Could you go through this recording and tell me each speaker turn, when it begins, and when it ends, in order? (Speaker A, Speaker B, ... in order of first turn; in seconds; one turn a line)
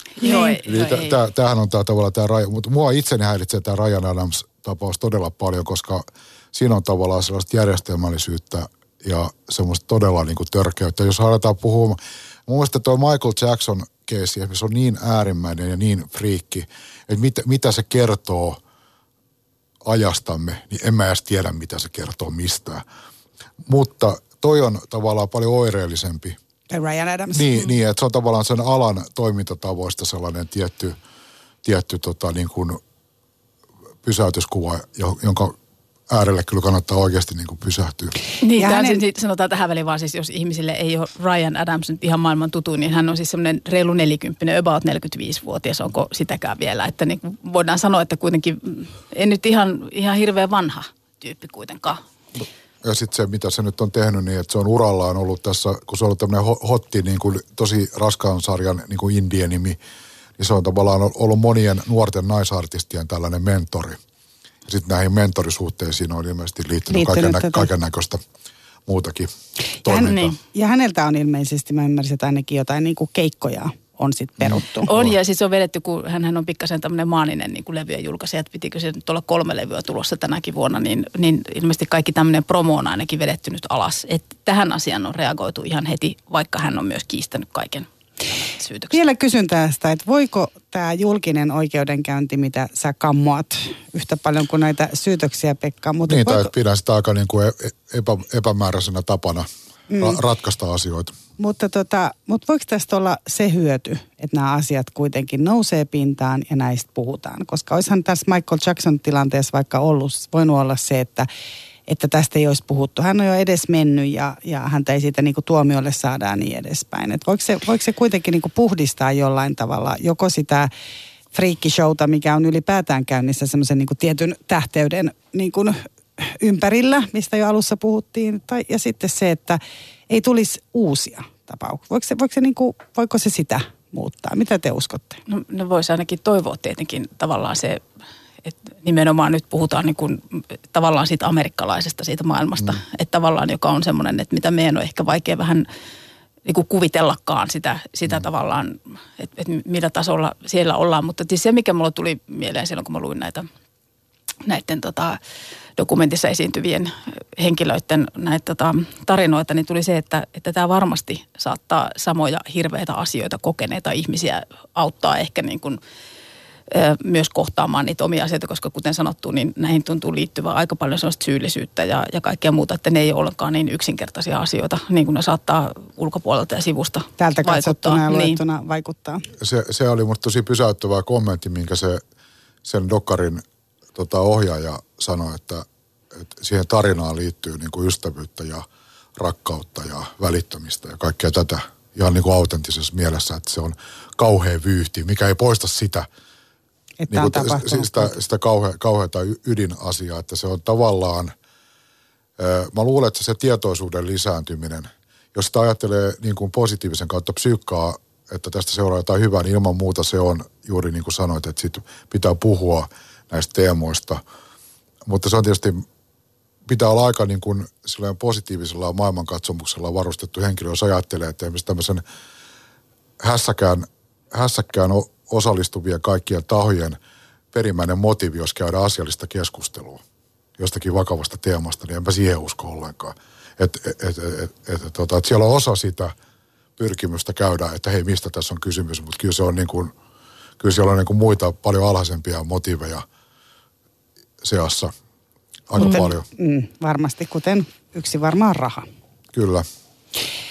Speaker A: 0.2-1.2
Speaker B: 0.2-0.5
Speaker C: 0.6-18.6
Speaker C: 19.8-22.8
Speaker C: 23.6-26.4
Speaker B: 26.7-27.6
Speaker C: 27.3-31.0
Speaker C: 31.6-32.8
Speaker C: 34.0-35.5
Speaker C: 36.1-38.1
Speaker A: 38.4-52.0
Speaker B: 38.6-39.0
Speaker C: 52.8-59.8
Speaker C: 60.4-64.0
Speaker C: 64.7-68.2
Speaker B: 66.9-67.7
Speaker C: 68.9-69.3
Speaker C: 69.8-70.3
Speaker B: 69.8-74.9
Speaker A: 70.0-70.3
Speaker A: 74.8-89.0
Speaker C: 74.9-75.1
Speaker B: 88.9-96.5
Speaker C: 96.1-101.2
Speaker B: 99.9-100.2
Speaker B: 101.4-111.3
Speaker B: 111.9-120.7
Speaker B: 121.3-135.2
Speaker A: 135.3-137.8
Speaker A: 138.4-145.7
Speaker A: 146.4-153.5
Speaker A: 154.4-155.2
Speaker A: 155.8-165.8
Speaker A: 166.7-178.4
Speaker B: 177.2-179.2
Speaker C: 179.4-182.0
Speaker C: 182.6-183.4
Speaker C: 183.9-188.6
Speaker C: 189.2-196.1
Speaker B: 197.0-198.1
Speaker C: 197.1-201.3
Speaker C: 202.4-214.2
Speaker C: 215.0-215.8
Speaker C: 216.7-222.0
Speaker C: 223.2-227.0
Speaker C: 227.5-230.0
Speaker C: 230.6-236.1
Speaker C: 236.8-239.9
Speaker C: 240.6-243.0
Speaker C: 244.4-244.9
Speaker C: 245.7-246.2
Speaker B: 245.8-248.8
Speaker C: 249.3-249.6